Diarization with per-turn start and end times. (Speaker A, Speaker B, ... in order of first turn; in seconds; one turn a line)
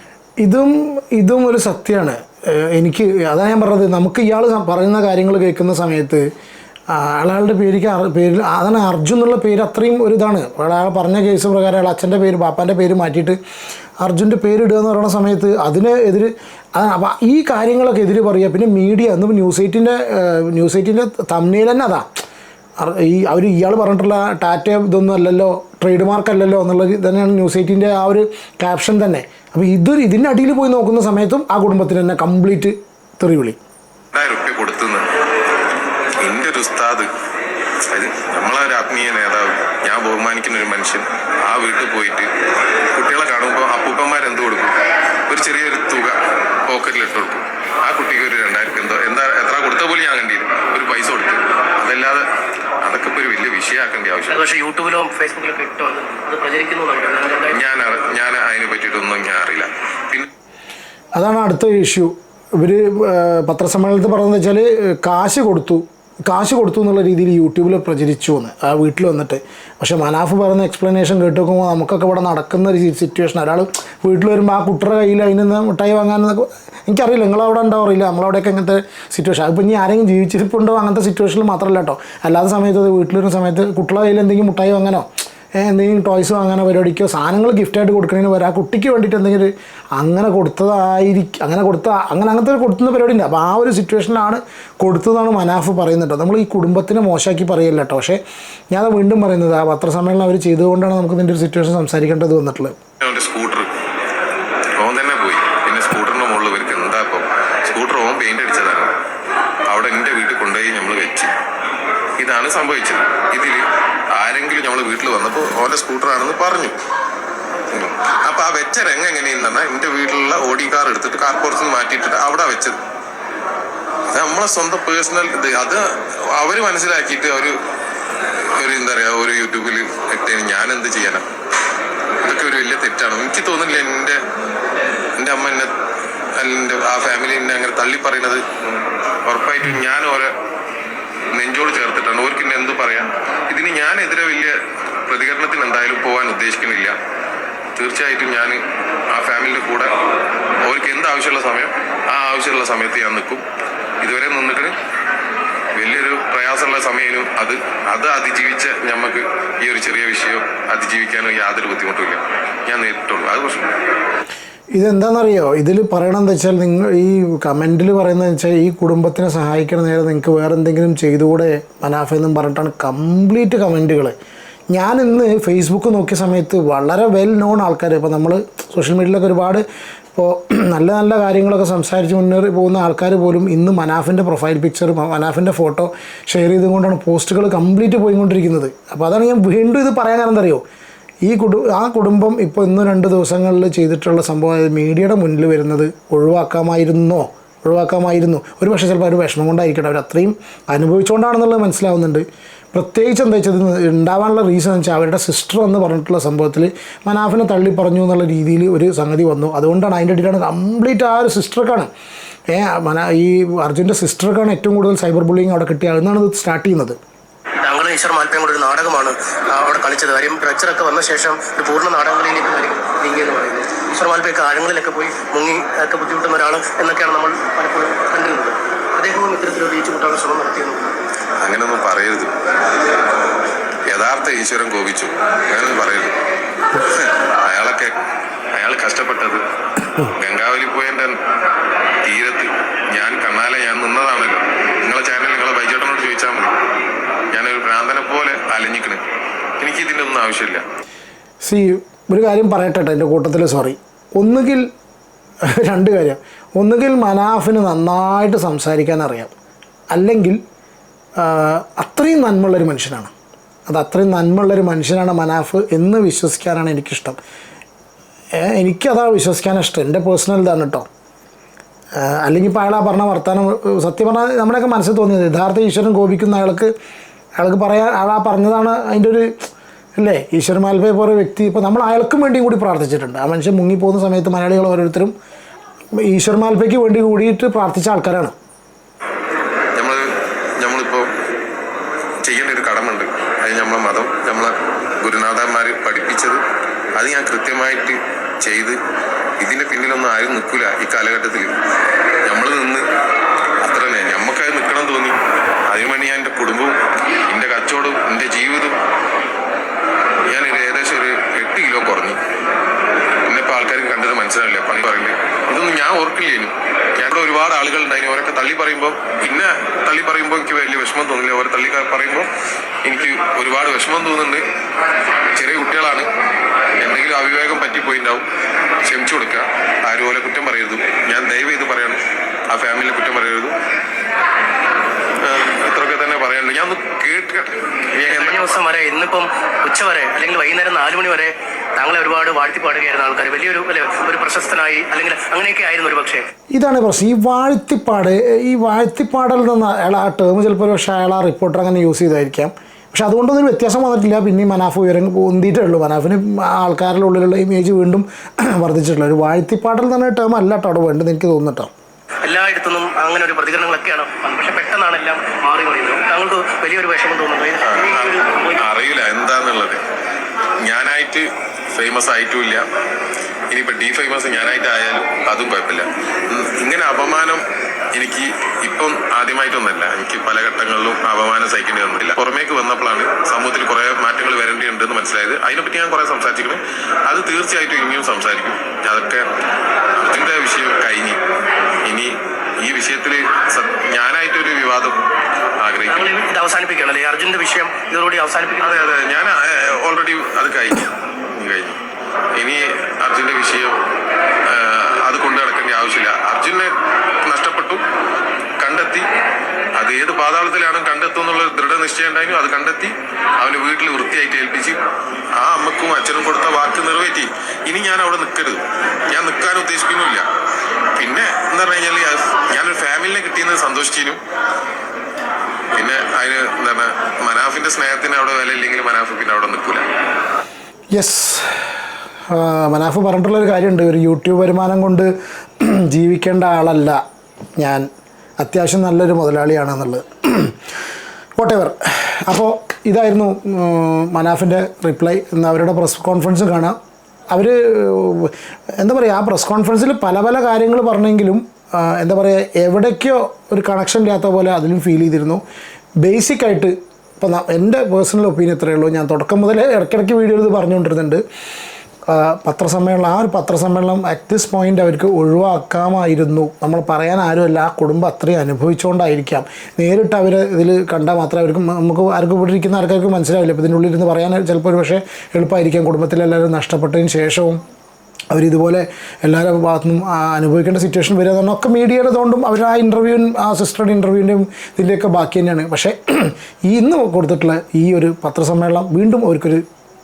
Speaker A: 0.4-6.3
Speaker A: 6.9-13.4
Speaker A: 14.0-22.1
Speaker A: 22.8-33.6
Speaker B: 34.1-35.1
Speaker B: 36.2-37.1
Speaker B: 37.9-42.3
Speaker B: 42.9-44.8
Speaker B: 45.3-52.3
Speaker B: 52.8-54.4
Speaker C: 54.3-57.6
Speaker B: 57.5-60.3
Speaker A: 61.2-98.2
Speaker A: 98.7-102.8
Speaker B: 103.0-103.7
Speaker B: 104.8-108.9
Speaker B: 109.7-111.3
Speaker B: 112.2-116.8
Speaker B: 117.7-122.8
Speaker B: 124.1-127.6
Speaker B: 128.4-131.2
Speaker B: 132.2-134.2
Speaker B: 135.2-135.7
Speaker B: 136.4-140.3
Speaker B: 141.3-147.0
Speaker B: 147.8-148.6
Speaker B: 149.1-149.9
Speaker B: 150.7-153.4
Speaker B: 154.0-154.7
Speaker B: 155.8-163.7
Speaker A: 164.8-174.2
Speaker A: 174.7-179.6
Speaker A: 180.2-190.6
Speaker A: 191.2-211.9
Speaker A: 212.5-217.0
Speaker C: 217.6-230.9
Speaker B: 231.4-232.3
Speaker B: 233.9-236.2
Speaker B: 236.8-237.9
Speaker B: 238.6-239.4
Speaker B: 240.0-241.2
Speaker B: 242.1-246.5
Speaker B: 247.3-249.0
Speaker B: 249.6-250.6
Speaker A: 251.4-254.7
Speaker A: 255.4-259.3
Speaker A: 259.9-260.4
Speaker A: 261.2-263.1
Speaker A: 263.7-267.2
Speaker A: 268.4-270.9
Speaker A: 272.0-276.7
Speaker A: 277.4-279.3
Speaker A: 280.0-285.1
Speaker A: 285.9-288.4
Speaker B: 289.8-290.1
Speaker B: 290.6-291.1
Speaker B: 292.2-296.4
Speaker B: 297.0-298.8
Speaker B: 299.4-301.5
Speaker B: 302.3-302.9
Speaker B: 303.6-308.8
Speaker B: 310.3-312.2
Speaker B: 313.3-322.3
Speaker B: 322.9-324.5
Speaker B: 325.4-326.1
Speaker B: 326.8-328.2
Speaker B: 328.9-333.6
Speaker B: 335.2-338.6
Speaker C: 338.1-346.3
Speaker A: 346.5-361.7
Speaker C: 362.2-368.6
Speaker B: 367.6-369.8
Speaker B: 370.6-372.6
Speaker B: 373.5-377.4
Speaker B: 377.9-389.3
Speaker B: 390.0-391.2
Speaker B: 391.9-395.0
Speaker B: 395.6-396.2
Speaker C: 395.9-398.9
Speaker B: 398.6-401.8
Speaker B: 402.4-403.8
Speaker B: 404.4-407.8
Speaker B: 408.6-409.1
Speaker B: 409.8-414.8
Speaker B: 415.4-420.3
Speaker B: 421.0-424.2
Speaker B: 425.8-429.9
Speaker A: 430.9-431.7
Speaker A: 432.3-437.0
Speaker A: 437.6-437.9
Speaker A: 438.4-440.6
Speaker A: 441.4-446.8
Speaker A: 447.3-455.4
Speaker A: 456.0-461.2
Speaker A: 462.1-477.6
Speaker A: 478.3-489.6